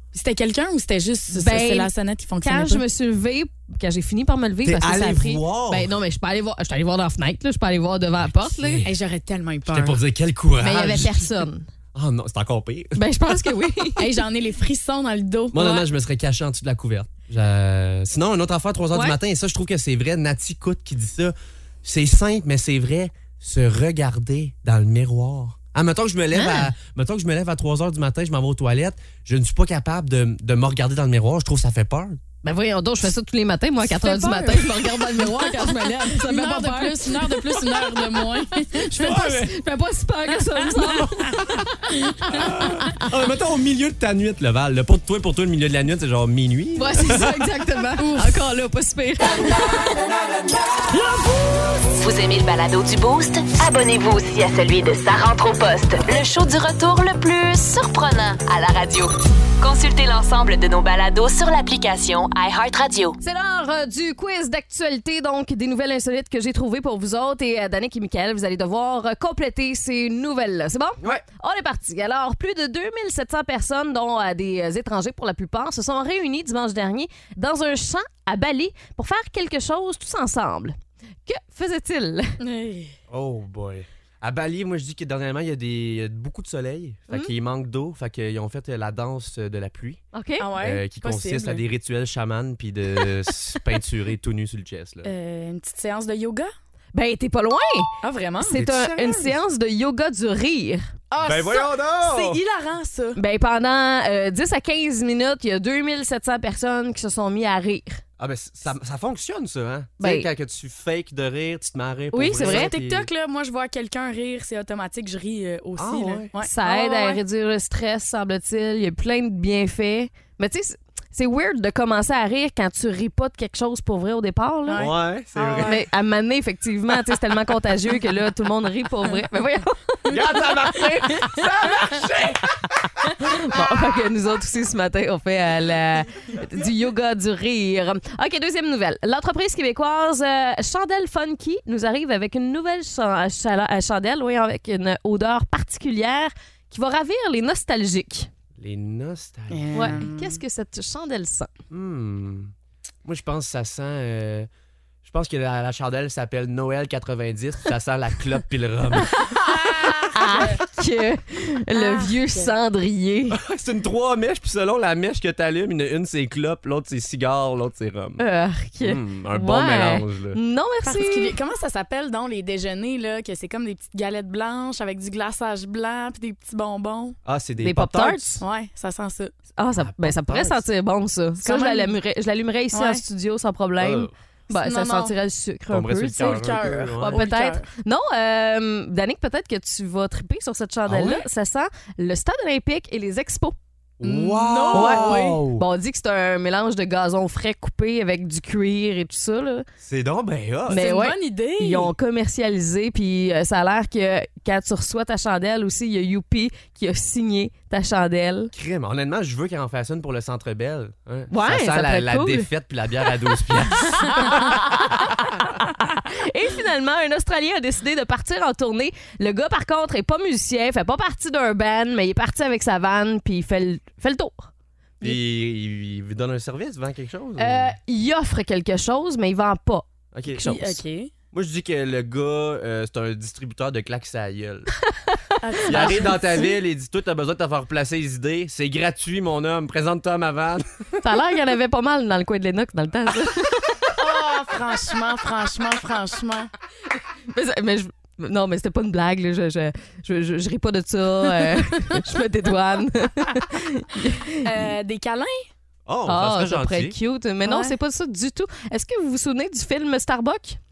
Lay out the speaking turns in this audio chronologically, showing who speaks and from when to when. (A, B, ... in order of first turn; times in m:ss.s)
0:00.1-0:02.8 A
0:01.3-0:01.9 B
0:02.4-0:08.9 B
0:04.6-0:05.9 C
0:08.2-0:08.9 C
0:08.8-0:10.0 A
0:09.7-0:11.4 C
0:10.6-0:11.7 B
0:11.9-0:13.7 C
0:13.0-0:14.1 B
0:14.0-0:15.9 A
0:15.5-0:32.2 C
0:26.3-0:26.7 B
0:32.4-0:43.0 B
0:33.8-0:39.3 A
0:38.9-0:39.6 C
0:42.2-0:47.4 C
0:46.8-0:49.9 B
0:48.0-0:48.4 A
0:51.9-1:03.2 D
1:03.2-1:22.4 B
1:22.4-1:23.0 A
1:23.1-1:30.0 C
1:30.1-1:30.5 B
1:30.4-1:31.6 A
1:30.6-1:35.1 C
1:35.0-1:36.5 A
1:36.9-1:40.9 B
1:38.0-1:38.6 A
1:38.5-1:39.4 C
1:41.1-1:43.2 A
1:41.2-1:42.4 C
1:43.2-1:48.0 B
1:48.2-1:53.1 C
1:50.0-1:50.3 B
1:52.1-1:52.7 B
1:52.4-1:57.2 A
1:55.8-1:56.3 C
1:56.4-2:04.9 B
2:04.7-2:05.8 A
2:04.8-2:05.8 C
2:05.6-2:10.1 B
2:10.1-2:11.4 A
2:10.1-2:12.6 C
2:13.2-2:28.3 B
2:28.6-2:30.0 C
2:29.5-2:30.4 A
2:29.7-2:31.5 B
2:31.7-2:32.5 C
2:33.0-2:34.5 C
2:35.0-2:40.5 C
2:39.9-2:40.6 A
2:40.1-2:43.4 B
2:41.7-2:42.5 A
2:43.3-2:48.2 C
2:48.2-2:51.4 B
2:48.8-2:50.4 C
2:50.8-2:57.2 A
2:57.2-2:58.4 C
2:57.6-2:58.4 B
2:58.4-2:59.3 A
2:59.6-3:13.6 B
2:59.8-3:00.6 C
3:01.4-3:01.9 A
3:02.7-3:03.0 A
3:03.8-3:04.1 C
3:04.5-3:05.2 A
3:05.7-3:07.3 C
3:06.2-3:07.7 A
3:10.9-3:11.3 C
3:14.0-3:15.6 C
3:14.0-3:15.4 A
3:14.7-3:19.7 B
3:19.8-3:20.9 C
3:20.7-3:28.5 B
3:20.7-3:21.9 A
3:28.5-3:35.4 C
3:31.3-3:32.5 B
3:33.7-3:44.5 B
3:45.0-3:47.8 C
3:47.4-3:49.9 B
3:50.1-3:54.7 C
3:50.4-3:51.1 A
3:55.4-3:56.5 A
3:55.7-4:00.7 C
3:55.7-3:56.0 B
4:01.0-4:03.8 B
4:04.0-4:06.5 A
4:07.3-4:14.4 B
4:14.4-4:15.5 A
4:15.9-4:17.0 C
4:16.1-4:20.6 B
4:17.4-4:17.8 A